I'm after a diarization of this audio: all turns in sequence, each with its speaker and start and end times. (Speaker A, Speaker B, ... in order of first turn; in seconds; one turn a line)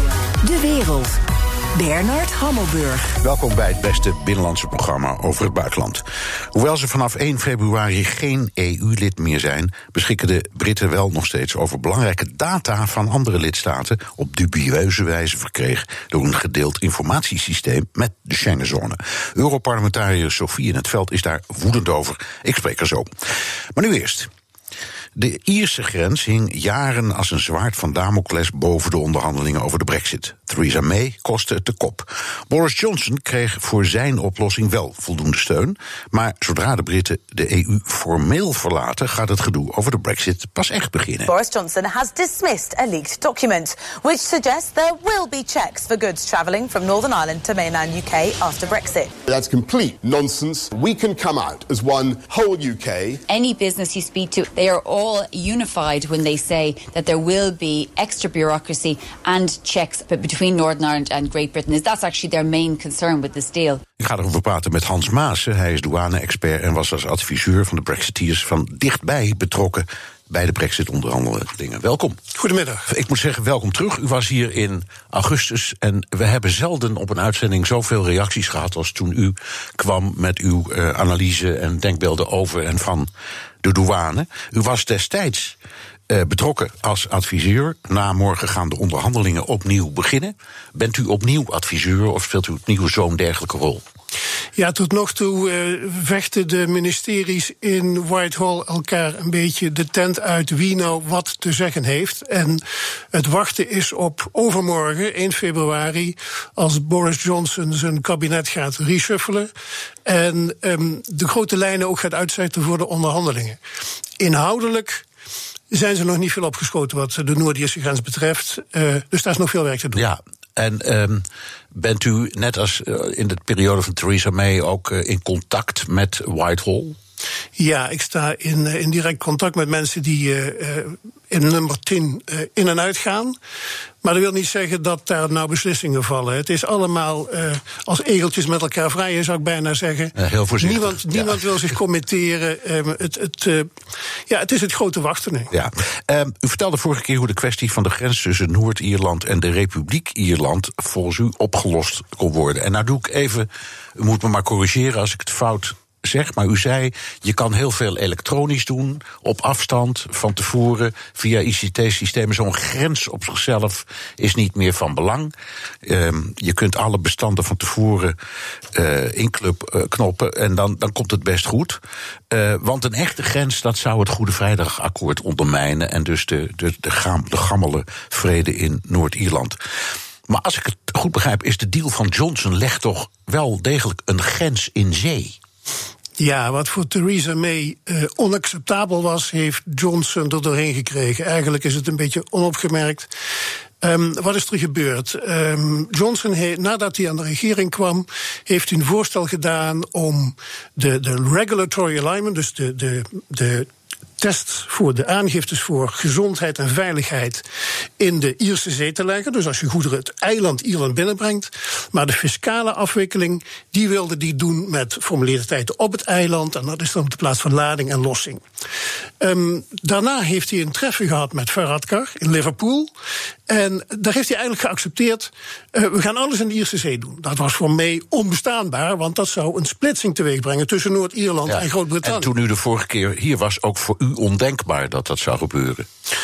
Speaker A: 0.4-1.2
Speaker A: 1.8-3.1
Speaker B: 3.2-24.3
Speaker B: 25.1-41.3
Speaker C: 41.3-49.1
Speaker D: 49.3-53.2
Speaker E: 53.3-63.8
Speaker B: 64.0-72.2
Speaker F: 72.3-72.9
Speaker B: 72.9-83.1
Speaker B: 83.6-85.6
Speaker B: 86.1-93.8
Speaker F: 94.6-109.5
Speaker F: 110.1-113.6
Speaker F: 114.2-115.1
Speaker F: 115.7-120.0
Speaker B: 120.0-127.0
Speaker F: 127.6-133.4
Speaker F: 134.0-143.7
Speaker B: 140.2-141.6
Speaker F: 144.3-145.5
Speaker B: 145.5-165.3
Speaker B: 165.8-168.2
Speaker B: 168.7-179.6
Speaker B: 180.3-185.4
Speaker F: 186.2-193.1
Speaker F: 193.8-203.7
Speaker F: 204.2-207.4
Speaker F: 208.0-218.4
Speaker F: 219.2-222.9
Speaker F: 223.5-232.3
Speaker B: 231.5-235.9